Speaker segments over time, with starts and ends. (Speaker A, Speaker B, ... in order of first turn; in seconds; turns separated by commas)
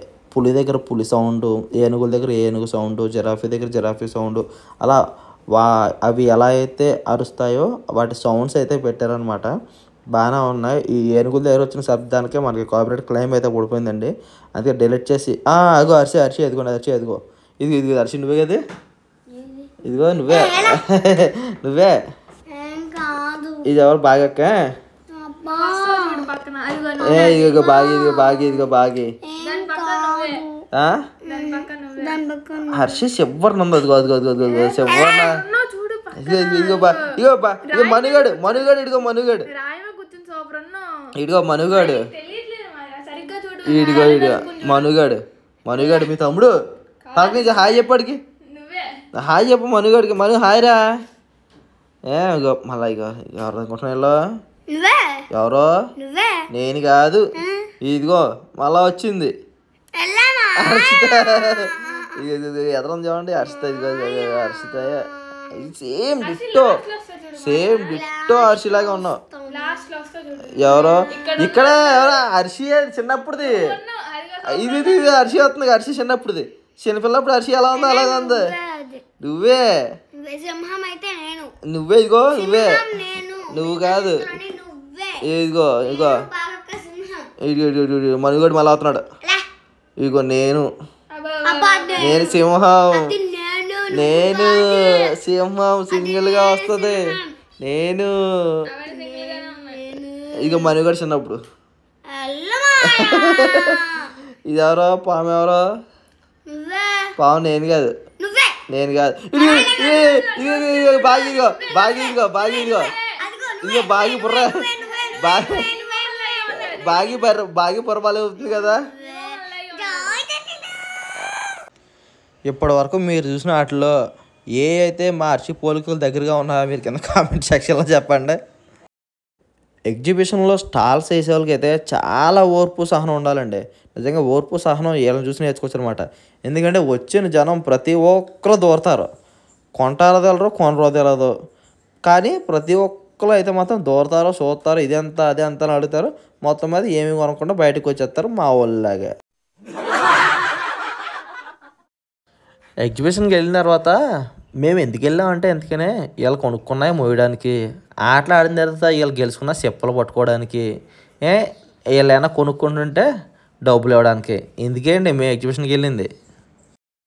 Speaker A: 0.3-5.0, Speaker A: 5.5-9.5, Speaker A: 10.1-18.6, Speaker B: 19.4-19.7, Speaker A: 19.8-21.9, Speaker B: 20.3-20.8, Speaker B: 22.5-23.6, Speaker A: 23.6-24.6, Speaker B: 25.1-26.4, Speaker C: 25.5-27.5, Speaker B: 27.0-28.7, Speaker A: 27.0-29.1, Speaker B: 29.2-30.7, Speaker C: 29.4-30.4, Speaker B: 31.2-33.0, Speaker C: 31.3-32.2, Speaker A: 32.7-35.4, Speaker B: 34.5-35.1, Speaker C: 34.8-38.8, Speaker A: 36.2-39.5, Speaker C: 39.5-41.0, Speaker A: 41.1-42.1, Speaker C: 41.6-44.9, Speaker A: 43.6-46.5, Speaker B: 45.7-46.1, Speaker C: 47.0-47.9, Speaker A: 47.1-48.2, Speaker C: 48.4-49.0, Speaker A: 49.1-50.8, Speaker A: 52.1-54.1, Speaker B: 54.7-55.2, Speaker A: 55.3-55.7, Speaker B: 56.0-56.5, Speaker A: 56.5-57.2, Speaker B: 57.4-57.7, Speaker A: 57.8-59.3, Speaker B: 60.0-62.1, Speaker A: 60.6-66.8, Speaker B: 63.6-65.7, Speaker C: 66.2-68.0, Speaker A: 67.4-69.2, Speaker B: 67.5-69.9, Speaker C: 69.5-72.2, Speaker A: 70.5-73.5, Speaker B: 70.7-71.2, Speaker C: 73.4-75.3, Speaker A: 74.4-78.4, Speaker B: 77.7-79.0, Speaker A: 79.2-79.6, Speaker B: 80.1-81.5, Speaker A: 81.7-82.8, Speaker B: 82.3-87.3, Speaker A: 83.5-84.3, Speaker A: 85.2-86.2, Speaker A: 87.4-89.0, Speaker A: 90.0-90.7, Speaker C: 91.1-92.3, Speaker B: 91.4-95.1, Speaker A: 92.0-93.1, Speaker A: 93.9-97.0, Speaker B: 95.9-97.3, Speaker A: 97.6-98.1, Speaker C: 98.7-99.9, Speaker B: 98.9-100.8, Speaker A: 100.4-101.4, Speaker B: 102.1-104.1, Speaker A: 102.9-103.8, Speaker A: 104.5-105.6, Speaker B: 106.5-107.1, Speaker A: 107.2-107.9, Speaker B: 108.2-108.6, Speaker A: 108.7-112.9, Speaker C: 109.3-113.2, Speaker B: 109.4-110.3, Speaker B: 110.8-111.2, Speaker B: 111.8-116.6, Speaker A: 113.6-114.5, Speaker A: 115.1-115.6, Speaker C: 115.4-117.2, Speaker A: 116.7-118.8, Speaker B: 118.4-120.9, Speaker C: 119.0-120.2, Speaker A: 122.5-123.9, Speaker A: 124.6-128.4, Speaker A: 129.9-139.1, Speaker A: 139.8-141.3, Speaker A: 142.1-149.1, Speaker A: 152.8-154.0, Speaker A: 154.6-157.5, Speaker A: 158.1-160.6, Speaker A: 161.9-163.1, Speaker A: 163.7-166.1